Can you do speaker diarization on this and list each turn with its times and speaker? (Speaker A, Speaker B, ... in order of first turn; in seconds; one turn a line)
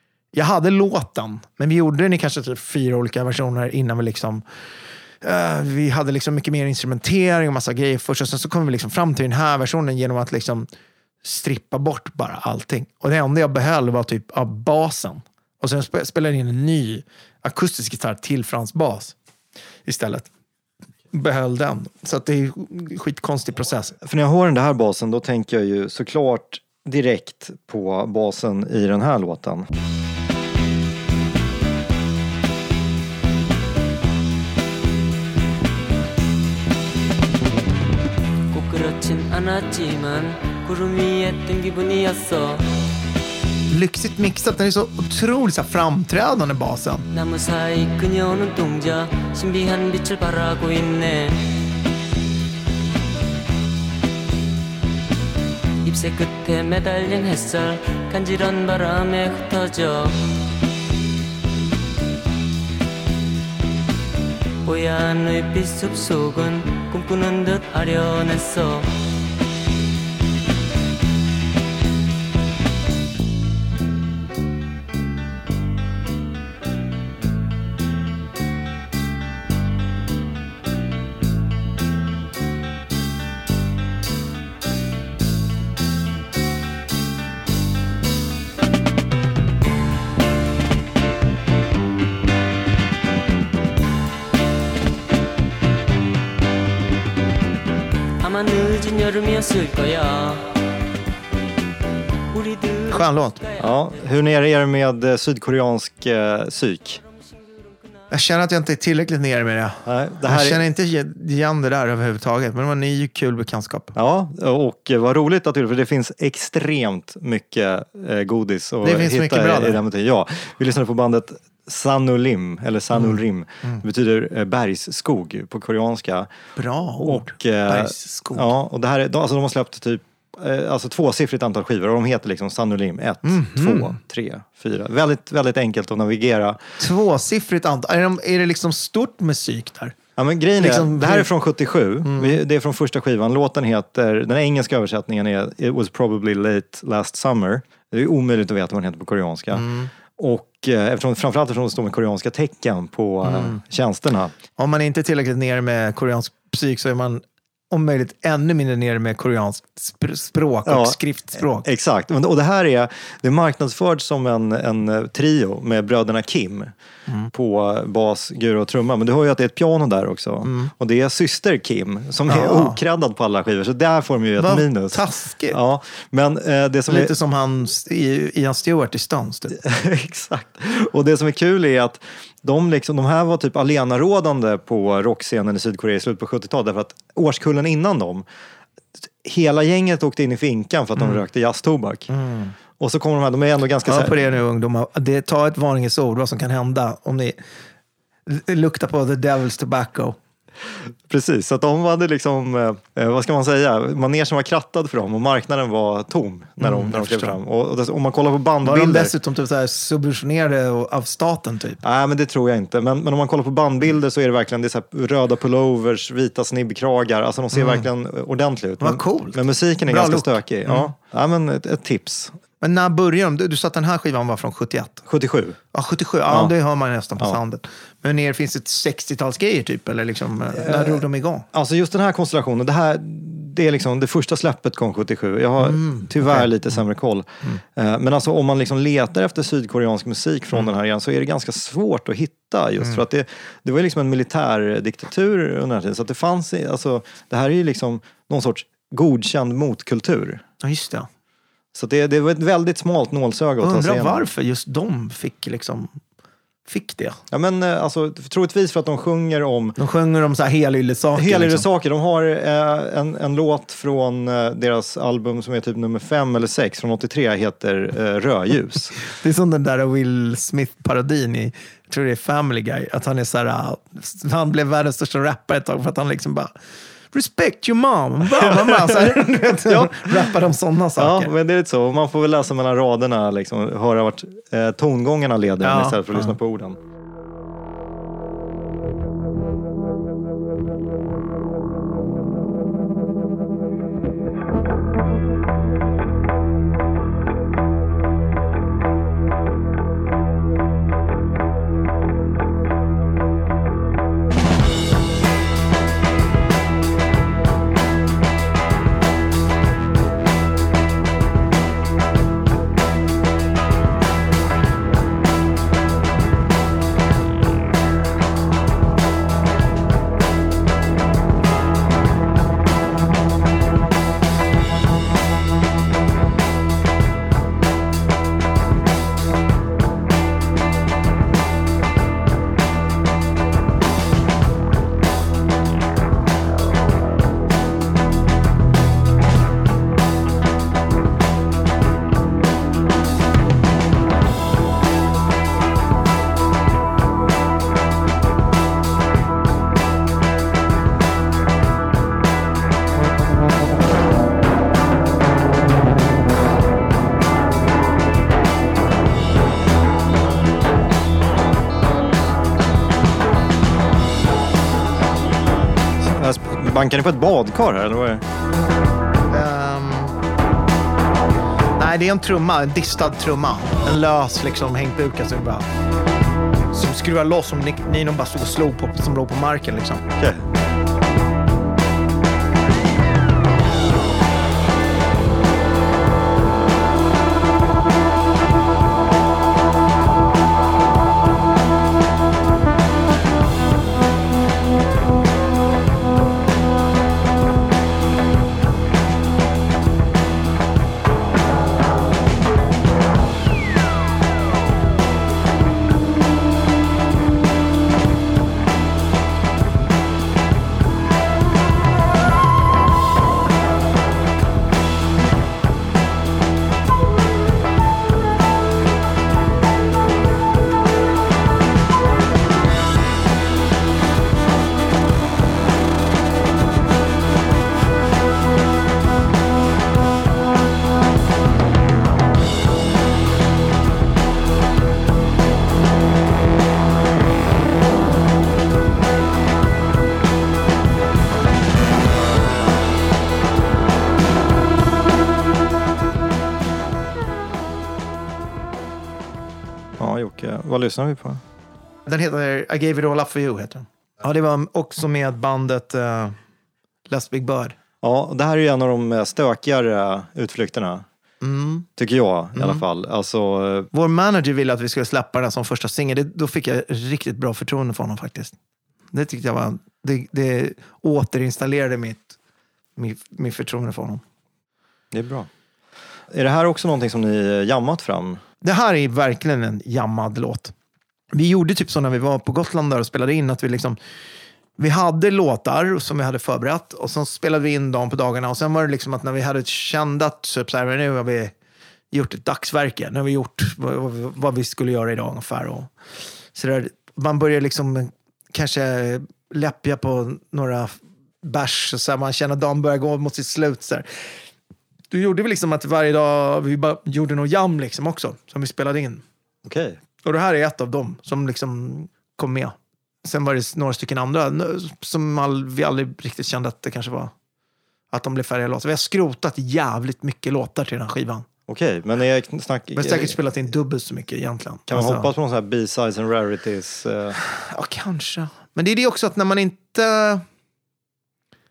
Speaker A: 0.3-4.4
Speaker A: 5.2-10.7
Speaker A: 11.2-19.1
Speaker A: 19.9-20.3
Speaker A: 21.1-24.0
Speaker B: 24.0-29.7
Speaker C: 38.5-42.7
Speaker A: 43.7-47.1
Speaker C: 47.1-51.5
Speaker C: 55.8-60.2
Speaker C: 64.6-69.0
Speaker C: 98.2-100.5
Speaker C: 102.3-103.7
Speaker A: 102.9-103.4
Speaker B: 103.6-107.0
Speaker A: 108.1-114.0
Speaker B: 109.8-110.6
Speaker B: 114.0-126.3
Speaker A: 118.8-119.8
Speaker A: 122.9-123.8
Speaker A: 126.6-128.5
Speaker B: 127.0-136.6
Speaker A: 133.2-134.0
Speaker A: 136.8-140.0
Speaker B: 140.2-149.7
Speaker A: 140.6-141.3
Speaker A: 142.0-142.4
Speaker A: 149.5-149.9
Speaker B: 150.2-154.3
Speaker A: 153.2-153.6
Speaker A: 154.6-161.7
Speaker B: 160.7-166.7
Speaker A: 167.1-167.3
Speaker B: 167.3-177.2
Speaker A: 170.4-170.7
Speaker A: 172.3-172.8
Speaker A: 174.4-175.6
Speaker A: 176.9-179.6
Speaker B: 179.5-188.2
Speaker B: 189.0-192.1
Speaker A: 192.1-192.5
Speaker B: 192.8-194.2
Speaker A: 193.8-197.4
Speaker A: 198.3-200.2
Speaker B: 200.7-209.1
Speaker A: 206.6-207.4
Speaker A: 208.6-211.8
Speaker B: 211.8-222.4
Speaker A: 217.5-217.9
Speaker A: 218.8-220.9
Speaker A: 222.6-225.0
Speaker B: 225.1-225.6
Speaker A: 225.7-231.5
Speaker B: 226.3-226.5
Speaker B: 230.5-250.4
Speaker A: 235.6-236.8
Speaker A: 250.6-251.1
Speaker B: 251.7-254.3
Speaker A: 253.6-256.0
Speaker A: 256.7-257.2
Speaker B: 257.3-259.8
Speaker A: 259.8-261.7
Speaker B: 261.2-268.9
Speaker A: 269.0-276.5
Speaker A: 277.1-281.3
Speaker B: 278.3-280.4
Speaker B: 281.0-286.8
Speaker A: 285.6-286.4
Speaker B: 366.0-368.2
Speaker A: 369.3-370.2
Speaker A: 371.8-375.7
Speaker A: 376.7-380.1
Speaker B: 380.2-380.4
Speaker B: 450.0-451.4
Speaker A: 452.1-456.4
Speaker A: 457.1-457.8
Speaker B: 458.0-461.1
Speaker A: 461.4-461.9
Speaker B: 462.0-463.9
Speaker A: 462.6-462.8
Speaker A: 463.9-468.5
Speaker A: 469.1-472.4
Speaker A: 473.0-474.2
Speaker B: 475.1-475.5
Speaker B: 476.3-478.4
Speaker A: 478.6-480.7
Speaker A: 481.3-484.0
Speaker A: 484.8-491.5
Speaker A: 492.1-495.9
Speaker A: 496.5-504.4
Speaker A: 505.1-509.2
Speaker B: 509.6-510.0
Speaker A: 510.2-517.3
Speaker A: 518.1-521.5
Speaker B: 521.7-523.4
Speaker A: 523.0-525.3
Speaker B: 524.9-527.4
Speaker A: 527.4-530.5